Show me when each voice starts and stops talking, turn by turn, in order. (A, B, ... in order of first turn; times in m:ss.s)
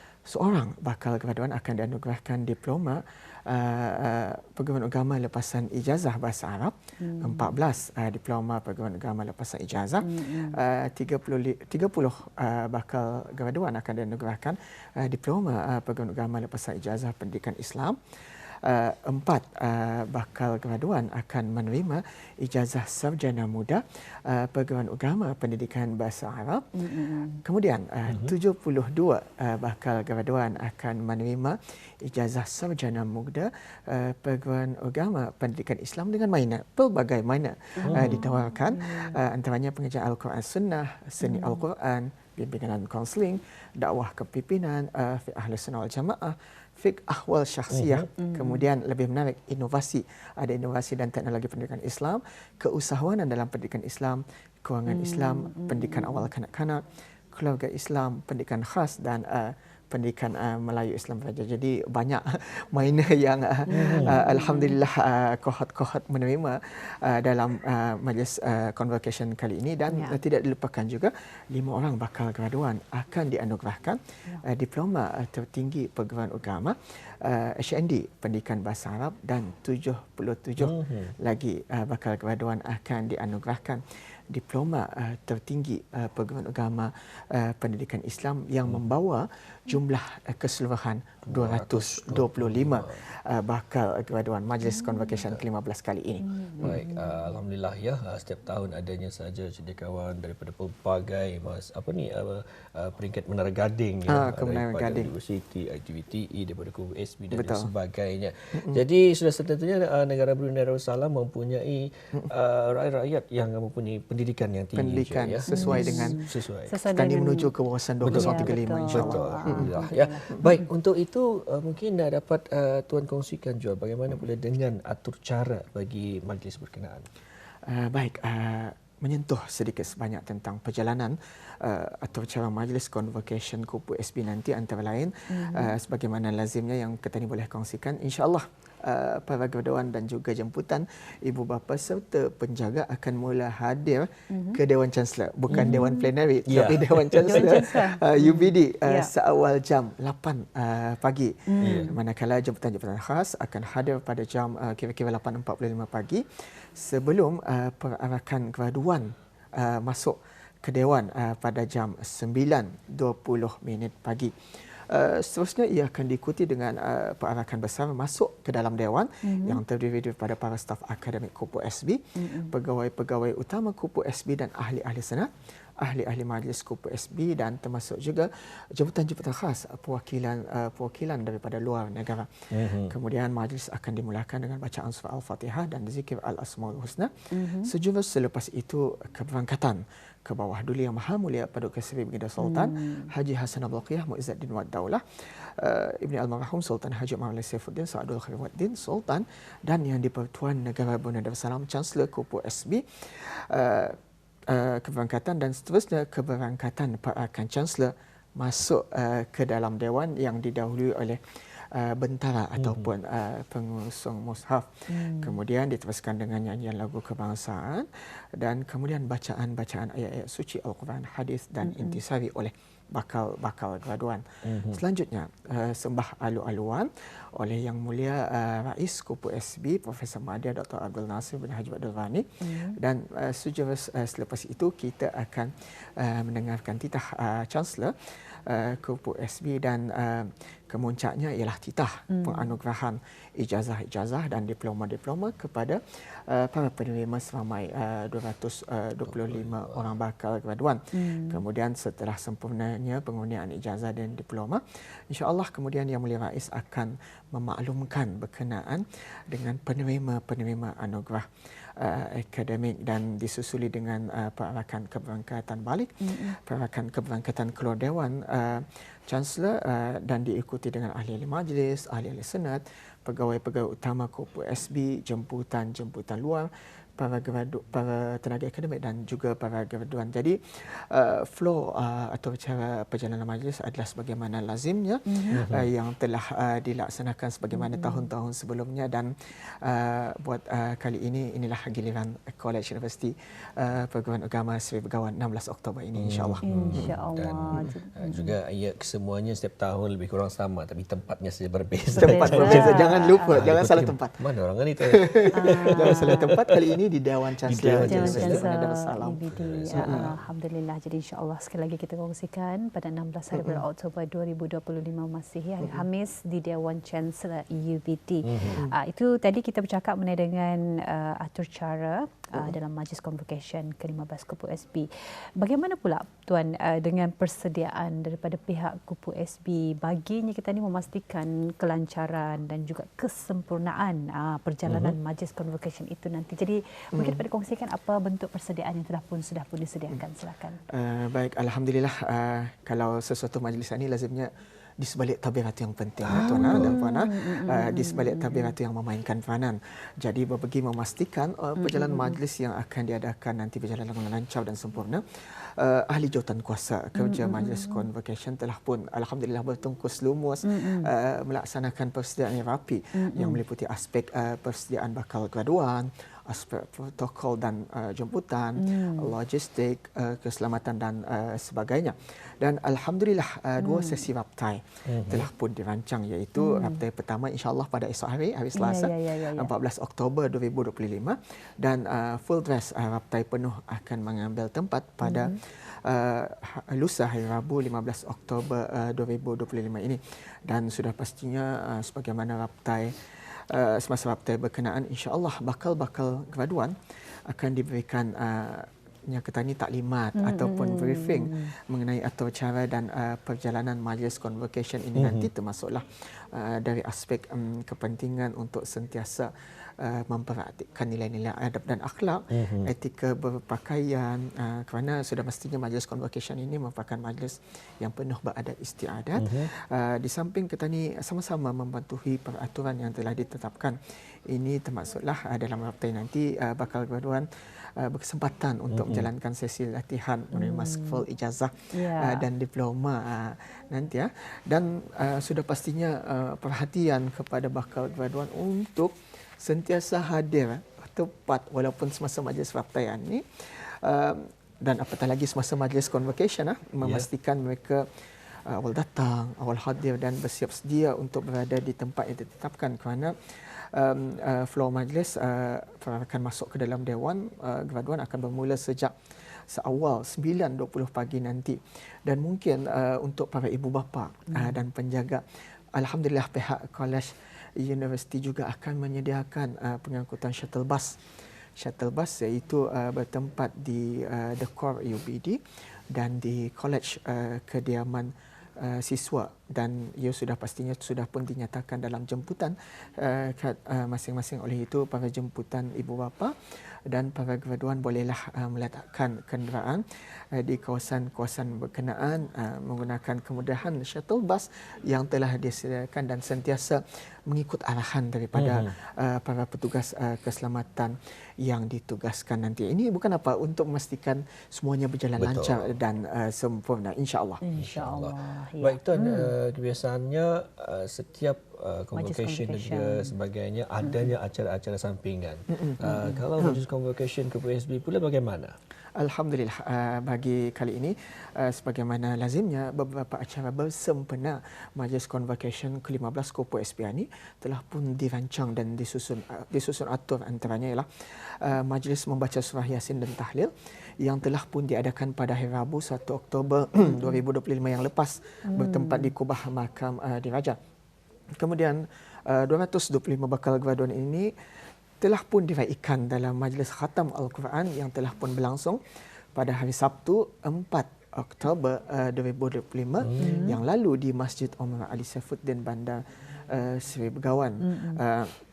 0:00.2-1:36.8 A
0:07.0-0:07.5 B
0:10.0-0:10.6 B
0:26.7-0:27.4 B
0:28.1-0:28.4 C
0:37.8-0:39.2 B
0:37.9-0:38.2 C
0:41.2-0:41.6 B
0:47.7-0:48.0 C
0:48.2-0:48.6 B
0:54.9-0:56.3 B
1:03.7-1:04.8 B
1:03.7-1:04.2 C
1:09.9-1:10.2 B
1:20.6-1:21.1 C
1:31.3-1:33.0 C
1:34.6-1:35.2 B
1:36.2-1:37.3 B
1:36.6-1:56.8 C
1:44.1-1:45.1 A
1:47.3-1:47.7 A
1:48.5-1:48.8 A
1:54.8-1:56.2 A
1:55.5-1:57.5 B
1:56.9-1:59.7 A
1:58.0-2:07.0 C
1:58.1-2:00.6 B
2:07.7-2:55.3 A
2:15.3-2:15.7 B
2:24.3-2:24.6 B
2:25.5-2:25.8 C
2:25.5-2:26.1 B
2:26.5-2:27.6 C
2:27.2-2:29.1 B
2:31.5-2:32.0 B
2:31.6-2:31.9 C
2:49.2-2:49.6 B
2:52.2-2:52.6 B
2:55.8-3:07.1 A
3:02.5-3:02.9 C
3:07.3-3:07.7 B
3:07.6-3:24.0 A
3:12.4-3:13.1 B
3:24.5-4:57.0 A
3:32.6-3:32.9 C
3:34.9-3:35.4 B
3:41.6-3:42.0 B
3:44.4-3:44.8 C
3:52.4-3:52.8 B
4:02.1-4:02.5 B
4:09.0-4:10.0 C
4:10.9-4:11.4 B
4:26.0-4:26.4 B
4:45.0-4:45.4 B
4:45.3-4:45.7 C
4:47.5-4:48.1 B
4:56.0-5:06.6 C
4:56.4-4:58.4 B
5:01.9-5:03.5 B
5:01.9-5:04.2 A
5:04.9-5:09.2 A
5:05.3-5:06.3 B
5:07.5-5:08.4 C
5:07.9-5:24.9 B
5:09.3-5:10.3 C
5:09.7-5:10.0 A
5:13.3-5:13.6 A
5:18.2-5:18.6 C
5:25.4-5:40.6 B
5:34.7-5:34.9 C
5:36.9-5:37.2 A
5:40.7-6:36.7 A
5:46.0-5:46.7 C
5:46.1-5:48.5 B
5:51.6-5:52.2 B
5:57.0-5:57.9 B
6:00.4-6:00.9 B
6:02.9-6:03.4 B
6:08.6-6:09.1 B
6:13.6-6:14.0 B
6:14.9-6:15.3 C
6:16.4-6:16.8 B
6:18.5-6:19.5 B
6:25.0-6:25.3 B
6:37.3-7:27.8 A
6:40.2-6:41.5 B
6:45.0-6:45.3 C
6:52.3-6:52.7 C
6:59.2-6:59.5 C
7:08.7-7:09.1 C
7:10.3-7:11.0 B
7:11.7-7:12.2 B
7:26.8-7:27.1 C
7:28.5-7:45.2 A
7:44.3-7:44.6 B
7:45.7-7:51.0 A
7:51.6-7:55.4 A
7:55.9-8:06.3 A
8:06.9-8:27.4 A
8:18.3-8:18.7 C
8:25.2-8:25.7 C
8:27.4-8:29.3 B
8:27.6-8:38.5 C
8:31.9-8:33.1 B
8:33.8-8:34.1 B
8:35.5-8:36.6 A
8:39.0-9:00.6 A
8:58.5-8:59.1 B
9:01.4-9:04.3 A
9:05.0-9:08.8 A
9:09.3-9:18.3 A
9:13.0-9:13.5 C
9:13.2-9:13.6 B
9:17.6-9:18.0 B